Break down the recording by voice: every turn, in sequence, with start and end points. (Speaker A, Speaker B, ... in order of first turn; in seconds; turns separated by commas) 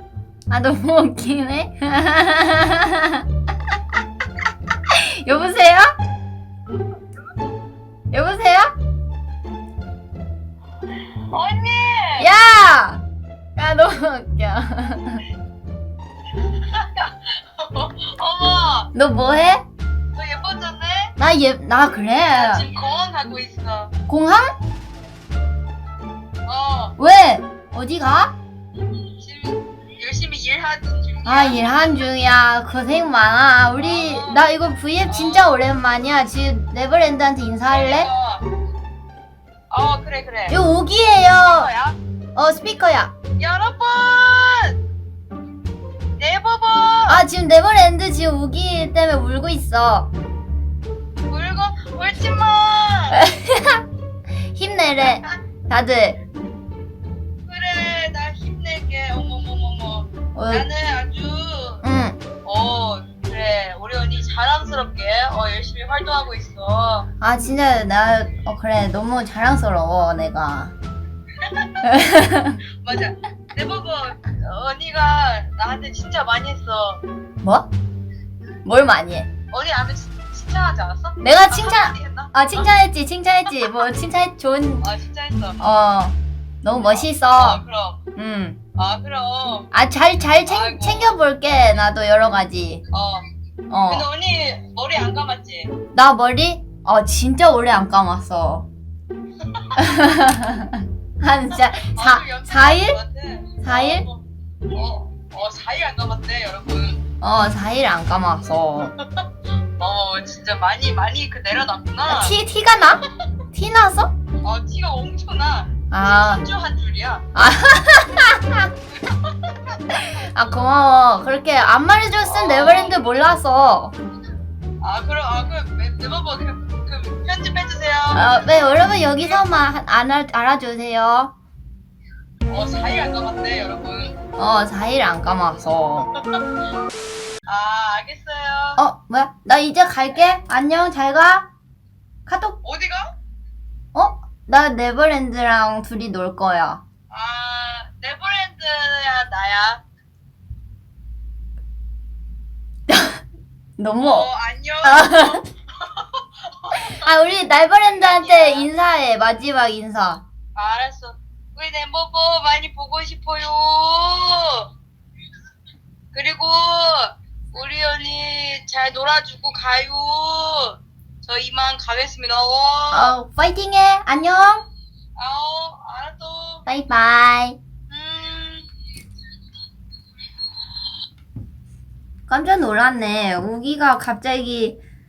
Speaker A: 0.5-3.2, Speaker A: 4.9-5.9, Speaker A: 8.1-8.7, Speaker B: 11.3-12.3, Speaker A: 12.2-13.0, Speaker A: 13.6-15.2, Speaker B: 16.4-18.9, Speaker A: 18.9-19.6, Speaker B: 20.1-21.1, Speaker A: 21.2-22.7, Speaker B: 22.3-23.9, Speaker A: 24.1-24.5, Speaker B: 26.5-27.0, Speaker A: 27.0-28.3, Speaker B: 29.2-31.6, Speaker A: 31.2-38.1, Speaker B: 33.8-34.5, Speaker B: 35.1-35.5, Speaker B: 37.7-38.4, Speaker B: 39.7-40.6, Speaker A: 40.5-41.7, Speaker B: 41.5-42.0, Speaker A: 42.4-43.1, Speaker B: 43.4-44.8, Speaker B: 46.2-47.2, Speaker A: 47.1-50.1, Speaker B: 51.3-53.2, Speaker A: 53.1-53.8, Speaker A: 54.5-56.2, Speaker B: 57.5-61.8, Speaker A: 60.4-60.7, Speaker A: 61.8-62.2, Speaker B: 62.4-67.1, Speaker A: 67.2-70.8, Speaker A: 71.8-72.6, Speaker B: 72.8-77.0, Speaker A: 77.4-77.7, Speaker A: 78.6-79.3, Speaker B: 79.5-82.4, Speaker A: 81.2-84.9, Speaker B: 84.8-85.6, Speaker A: 85.6-87.6, Speaker B: 86.7-88.0, Speaker A: 88.2-88.6, Speaker B: 88.8-89.7, Speaker A: 89.7-92.8, Speaker B: 90.5-91.2, Speaker B: 92.9-93.3, Speaker A: 93.7-94.0, Speaker B: 93.9-95.7, Speaker A: 95.9-98.7, Speaker A: 99.8-103.0, Speaker B: 101.7-107.0, Speaker A: 103.6-104.1, Speaker A: 107.2-109.0, Speaker B: 109.8-112.4, Speaker A: 112.1-114.1, Speaker B: 114.4-117.2, Speaker A: 115.9-116.4, Speaker A: 117.3-118.7, Speaker B: 119.0-119.5, Speaker A: 119.9-124.0, Speaker B: 122.2-123.0, Speaker B: 124.8-128.3, Speaker A: 128.1-131.3, Speaker B: 132.5-134.2, Speaker A: 134.4-136.1, Speaker B: 137.5-138.8, Speaker A: 138.8-141.5, Speaker A: 142.3-142.6, Speaker B: 142.6-143.1, Speaker A: 143.9-146.8, Speaker B: 147.1-149.8, Speaker A: 152.9-153.2, Speaker A: 153.8-154.3, Speaker B: 154.0-157.1, Speaker A: 154.8-155.4, Speaker A: 156.7-160.2, Speaker B: 157.8-158.7, Speaker B: 160.6-164.7, Speaker B: 166.1-173.2, Speaker A: 172.9-174.7, Speaker B: 175.2-176.7, Speaker A: 176.7-177.6, Speaker B: 177.9-178.7, Speaker A: 182.3-184.8